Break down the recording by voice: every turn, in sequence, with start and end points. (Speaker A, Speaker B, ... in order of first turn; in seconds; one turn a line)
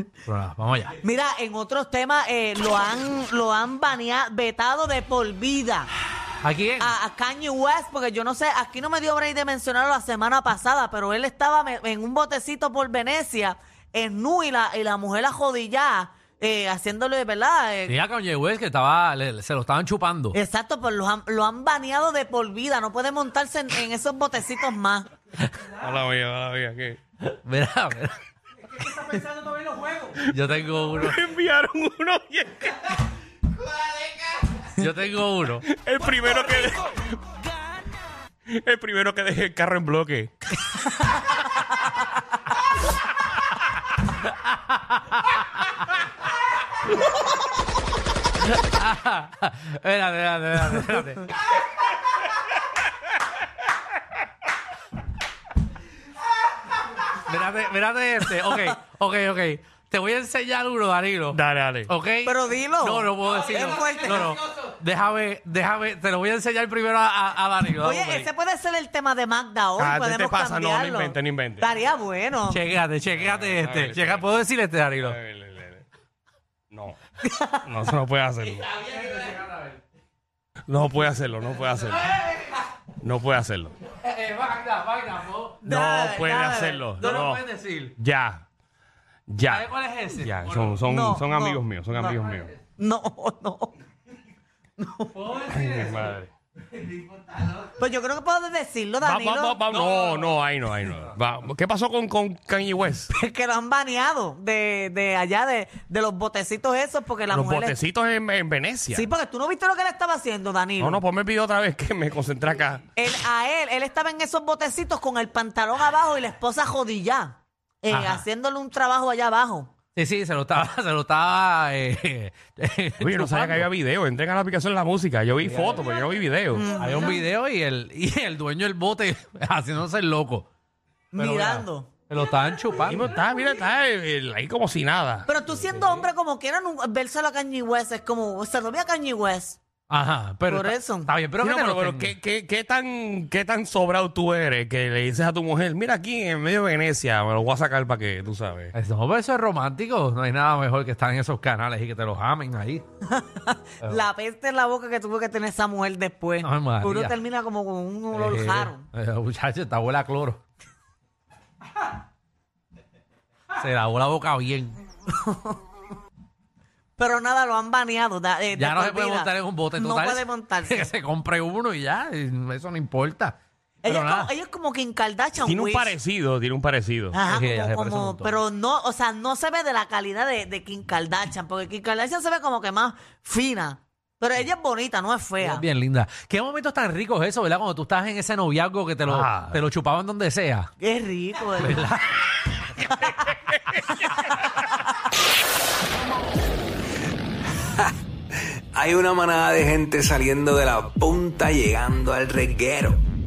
Speaker A: 0.2-1.0
Speaker B: 1.0-5.9
Speaker A: 6.4-6.9
Speaker B: 6.8-17.9
Speaker A: 17.9-20.4
Speaker B: 20.3-25.1
Speaker A: 25.4-25.7
Speaker C: 25.7-27.0
Speaker A: 27.2-28.2
Speaker B: 28.7-30.0
Speaker A: 30.2-31.2
Speaker C: 30.2-33.0
Speaker A: 34.8-35.6
Speaker C: 35.7-37.1
Speaker C: 38.5-40.3
Speaker A: 44.3-45.4
Speaker A: 48.4-51.3
Speaker A: 57.2-68.3
Speaker C: 61.3-61.9
Speaker B: 62.2-64.3
Speaker B: 67.8-72.6
Speaker C: 69.8-71.7
Speaker A: 72.5-75.2
Speaker C: 73.1-74.3
Speaker C: 75.0-75.8
Speaker C: 76.7-77.0
Speaker B: 77.2-77.6
Speaker C: 77.6-78.7
Speaker A: 78.8-79.5
Speaker C: 80.7-82.1
Speaker C: 83.0-83.8
Speaker A: 83.9-85.7
Speaker B: 85.6-86.9
Speaker C: 85.7-87.4
Speaker A: 86.9-87.9
Speaker C: 88.0-88.4
Speaker C: 89.3-92.5
Speaker A: 89.4-90.8
Speaker B: 90.9-92.2
Speaker B: 92.8-93.7
Speaker B: 94.8-95.2
Speaker A: 95.1-96.1
Speaker C: 95.5-96.3
Speaker B: 97.8-100.0
Speaker C: 99.0-103.1
Speaker B: 103.1-107.8
Speaker C: 107.3-109.1
Speaker B: 108.9-111.0
Speaker C: 110.8-112.9
Speaker B: 113.0-119.7
Speaker A: 117.9-118.2
Speaker A: 119.9-123.7
Speaker C: 123.0-126.7
Speaker A: 125.4-125.8
Speaker B: 126.5-127.2
Speaker A: 126.7-130.5
Speaker B: 131.1-131.9
Speaker A: 131.2-133.1
Speaker C: 132.9-135.3
Speaker B: 135.3-139.6
Speaker A: 135.5-136.1
Speaker A: 139.9-142.2
Speaker B: 140.5-141.1
Speaker C: 141.4-148.7
Speaker A: 148.7-152.8
Speaker B: 153.1-158.8
Speaker A: 156.4-157.2
Speaker A: 158.1-160.4
Speaker A: 163.5-164.8
Speaker B: 165.1-165.6
Speaker B: 167.0-170.9
Speaker A: 168.5-174.3
Speaker B: 173.8-176.0
Speaker C: 175.4-177.2
Speaker B: 177.1-185.6
Speaker A: 177.2-178.4
Speaker A: 185.4-190.7
Speaker C: 189.1-189.6
Speaker B: 190.8-191.8
Speaker A: 191.6-192.2
Speaker D: 197.8-203.0